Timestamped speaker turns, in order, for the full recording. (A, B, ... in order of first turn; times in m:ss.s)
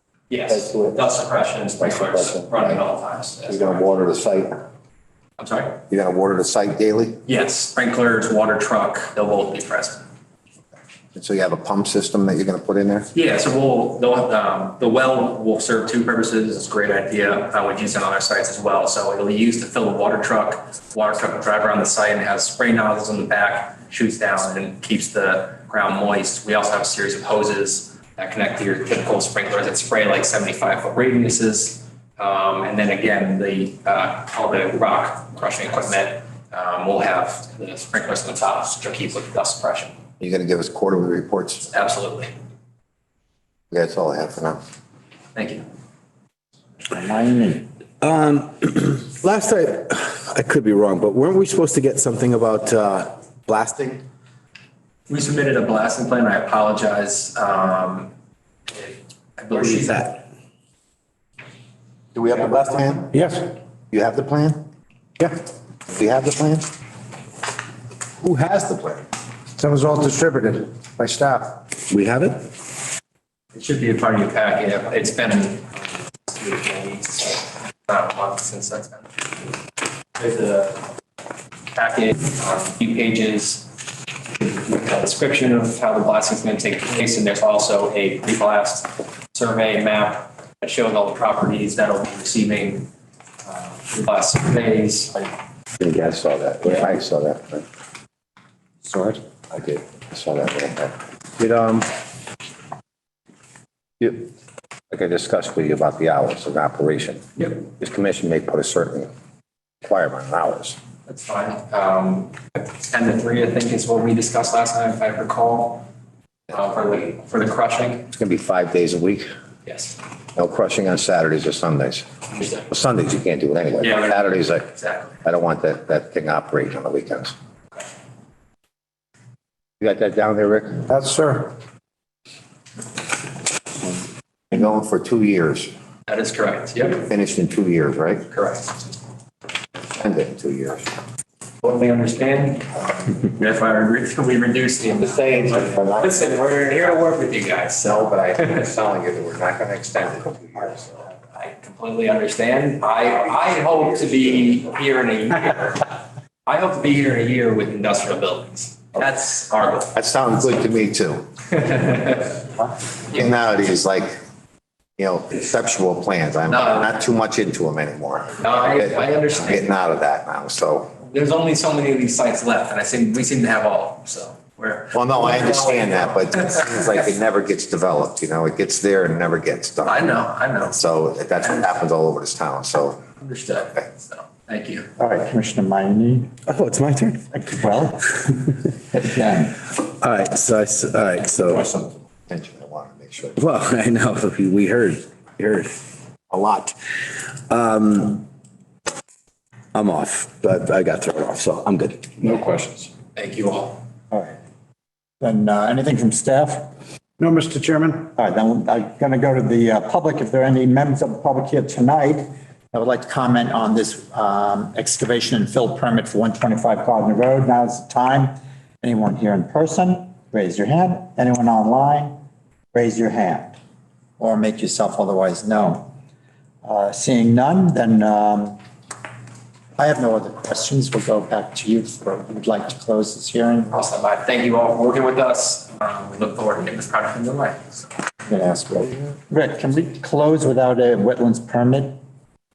0:00.3-0:04.0 A
0:00.6-0:00.9 B
0:01.9-0:02.7 B
0:03.5-0:04.6 B
0:05.4-0:05.8 A
0:05.9-0:07.2 B
0:07.2-0:10.0 A
0:11.1-0:13.1 B
0:13.1-0:40.0 A
0:40.2-0:41.7 B
0:41.7-0:42.3 A
0:43.7-0:44.6 B
0:45.3-0:45.7 A
0:46.9-0:47.6 C
0:48.0-0:54.0 D
0:55.1-0:58.1 A
0:58.7-1:00.2 A
0:59.6-1:00.1 D
1:02.1-1:03.1 B
1:03.1-1:03.5 E
1:03.9-1:04.6 B
1:05.9-1:06.7 B
1:08.2-1:09.0 D
1:09.6-1:10.7 E
1:11.9-1:12.5 D
1:13.5-1:19.5 A
1:20.2-1:20.9 A
1:21.7-1:23.8 A
1:24.3-1:32.9 A
1:33.4-1:35.3 A
1:35.8-1:37.6 B
1:39.5-1:41.9 B
1:44.0-1:44.3 B
1:44.9-1:49.1 B
1:49.8-1:50.8 B
1:51.0-1:55.9 A
1:56.5-1:58.1 A
1:58.1-1:59.3 B
1:59.6-2:00.0 A
2:00.4-2:02.1 B
2:02.3-2:02.7 A
2:02.7-2:04.7 B
2:03.8-2:05.2 A
2:05.2-2:07.3 B
2:09.8-2:10.8 B
2:10.9-2:11.6 E
2:14.5-2:15.7 B
2:16.1-2:17.0 A
2:17.0-2:18.3 B
2:18.3-2:18.9 A
2:19.9-2:20.9 B
2:21.6-2:28.7 A
2:25.0-2:26.8 B
2:28.1-2:30.9 B
2:31.0-2:39.9 A
2:39.9-2:41.3 B
2:41.5-2:42.4 A
2:43.1-2:44.2 B
2:45.0-2:51.0 B
2:46.5-2:46.9 A
2:48.4-2:49.6 A
2:51.0-2:57.0 A
2:54.9-3:00.0 B
2:59.8-3:00.8 A
3:00.8-3:03.1 B
3:03.2-3:04.9 A
3:05.0-3:06.3 C
3:06.5-3:07.2 D
3:07.3-3:09.6 C
3:10.0-3:11.9 D
3:12.3-3:13.4 B
3:13.4-3:15.7 D
3:16.3-3:16.7 D
3:17.5-3:18.2 D
3:19.7-3:22.9 D
3:23.1-3:23.8 A
3:24.1-3:24.4 C
3:25.2-3:26.7 C
3:27.2-3:28.1 E
3:28.1-3:42.2 C
3:42.7-3:43.6 C
3:44.2-3:45.9 C
3:46.6-3:48.6 C
3:49.8-3:53.7 C
3:53.7-3:57.9 A
3:58.3-4:02.0 C